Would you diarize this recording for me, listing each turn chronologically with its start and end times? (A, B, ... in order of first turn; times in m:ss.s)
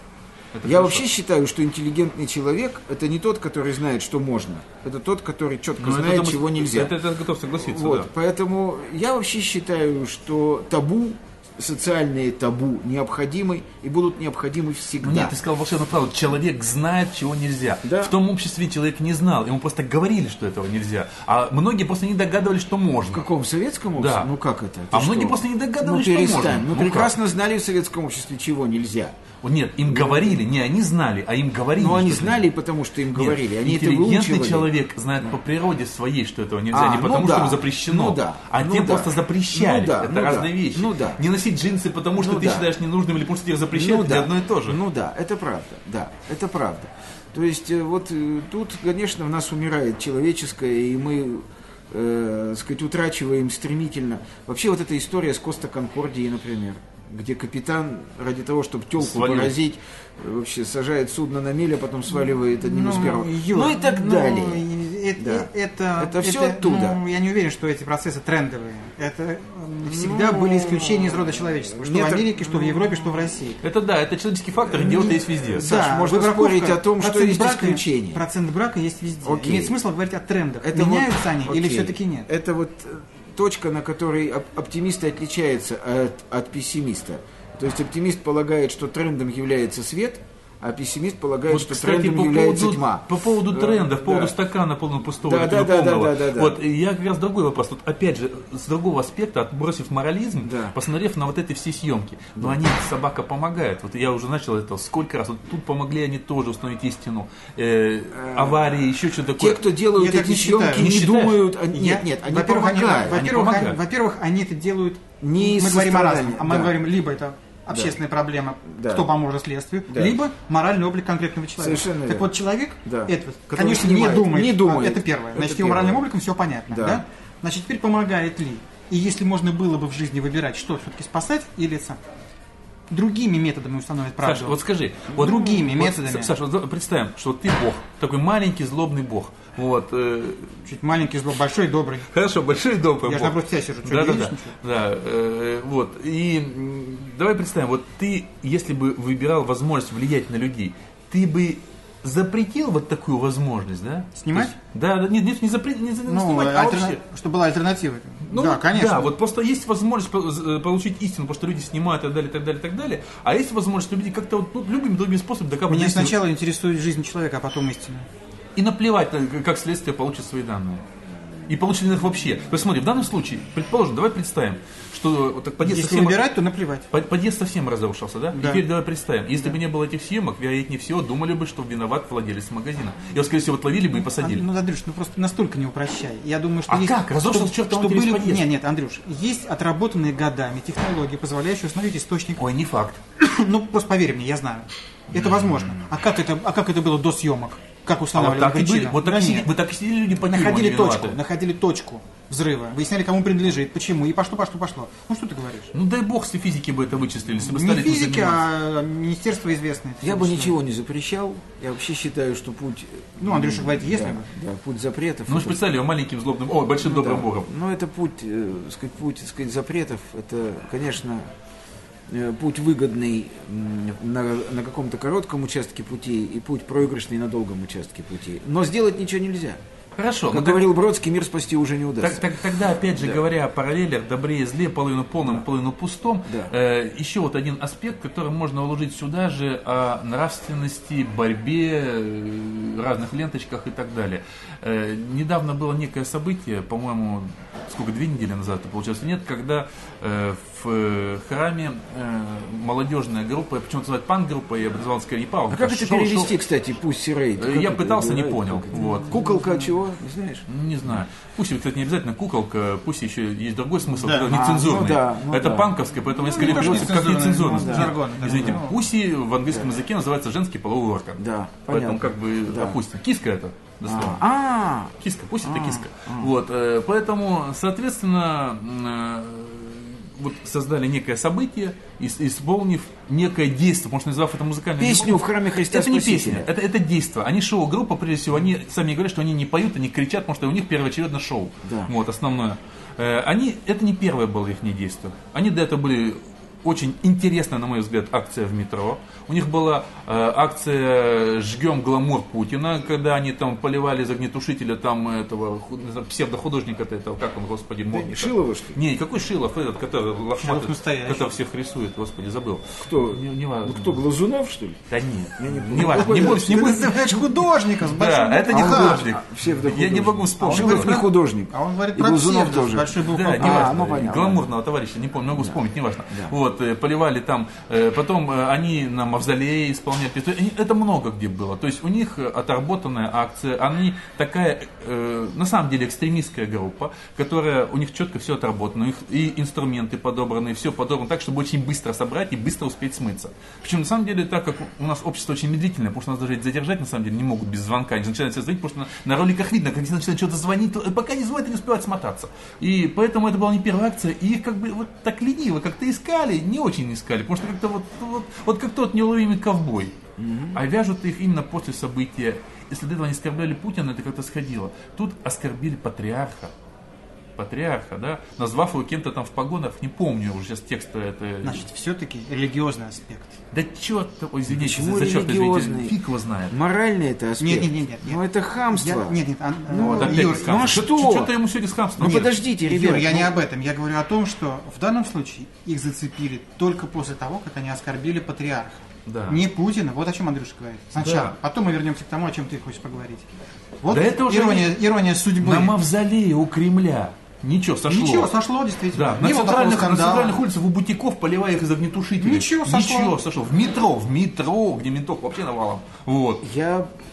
0:00.5-0:01.0 A
0:00.6-0:07.0 B
0:05.8-0:08.1 A
0:07.5-0:15.4 B
0:15.0-0:23.2 A
0:17.8-0:18.2 B
0:23.1-0:29.2 B
0:24.0-0:24.3 A
0:24.9-0:27.1 A
0:29.4-0:32.5 A
0:29.9-0:30.4 B
0:31.8-0:34.7 B
0:33.1-0:44.8 A
0:36.7-0:41.2 B
0:42.2-0:42.7 B
0:43.7-1:04.6 B
0:59.0-0:59.5 A
1:02.6-1:13.6 C
1:05.2-1:07.0 B
1:09.8-1:12.9 B
1:13.6-1:15.6 A
1:14.7-1:22.3 C
1:15.0-1:18.2 B
1:19.2-1:19.8 B
1:20.6-1:34.4 B
1:31.5-1:49.6 A
1:35.2-1:36.6 B
1:40.4-1:40.8 B
1:48.1-1:48.8 B
1:49.4-1:53.2 B
1:50.0-2:12.0 C
1:53.1-1:53.8 A
1:55.2-1:56.7 B
1:57.7-1:58.0 B
1:58.7-1:59.1 B
1:59.9-2:00.2 B
2:01.6-2:02.3 B
2:02.8-2:06.0 B
2:06.7-2:07.0 B
2:12.9-2:14.6 C
2:14.2-2:20.6 A
2:15.1-2:16.3 C
2:20.7-2:22.1 C
2:22.1-2:37.0 A
2:23.0-2:24.6 C
2:34.2-2:34.5 C
2:36.1-2:39.1 C
2:38.2-2:46.2 A
2:45.7-2:48.1 C
2:48.6-2:50.8 A
2:51.5-2:56.2 A
2:55.6-2:56.9 C
2:56.9-3:04.4 A
2:58.3-2:58.6 C
3:04.2-3:12.4 C
3:06.7-3:08.4 A
3:12.4-3:13.0 A
3:13.2-3:19.5 C
3:15.2-3:15.7 A
3:18.2-3:21.2 A
3:20.3-3:25.7 C
3:25.7-3:28.4 A
3:27.4-3:30.6 C
3:30.0-3:35.6 B
3:33.2-3:34.3 C
3:35.3-3:37.5 A
3:36.8-3:41.3 B
3:42.1-3:49.6 B
3:50.0-3:50.7 A
3:50.3-3:52.3 B
3:52.0-4:16.3 A
3:53.0-3:53.2 B
3:56.3-3:56.5 B
4:15.5-4:20.4 B
4:17.4-4:19.2 A
4:20.5-4:34.2 A
4:24.0-4:24.3 C
4:24.2-4:25.7 B
4:26.2-4:28.8 C
4:26.3-4:28.6 B
4:31.2-4:32.8 B
4:33.9-4:36.3 B
4:35.0-5:14.0 A
4:44.8-4:46.5 B
4:51.6-4:51.9 B
5:07.9-5:08.8 B
5:10.4-5:11.3 C
5:12.8-5:14.8 B
5:14.9-5:17.0 A
5:15.4-5:17.2 B
5:15.8-5:19.1 C
5:17.8-5:21.0 A
5:18.5-5:24.5 B
5:20.4-5:23.8 C
5:23.0-6:00.0 A
6:00.2-6:00.6 B
6:00.5-6:06.5 A
6:07.4-6:11.6 A
6:11.4-6:13.4 C
6:13.5-6:16.6 A
6:14.5-6:16.0 B
6:16.5-6:19.2 B
6:17.4-6:18.2 C
6:18.7-6:20.8 C
6:19.7-6:21.3 B
6:19.8-6:22.3 A
6:22.0-6:23.3 B
6:22.0-6:33.3 C
6:29.1-6:29.4 A
6:31.0-6:31.4 A
6:33.8-6:35.8 C
6:33.9-6:34.7 A
6:35.4-6:38.3 A
6:37.9-6:40.4 C
6:38.9-6:46.4 A
6:42.2-6:43.2 C
6:46.4-6:46.9 B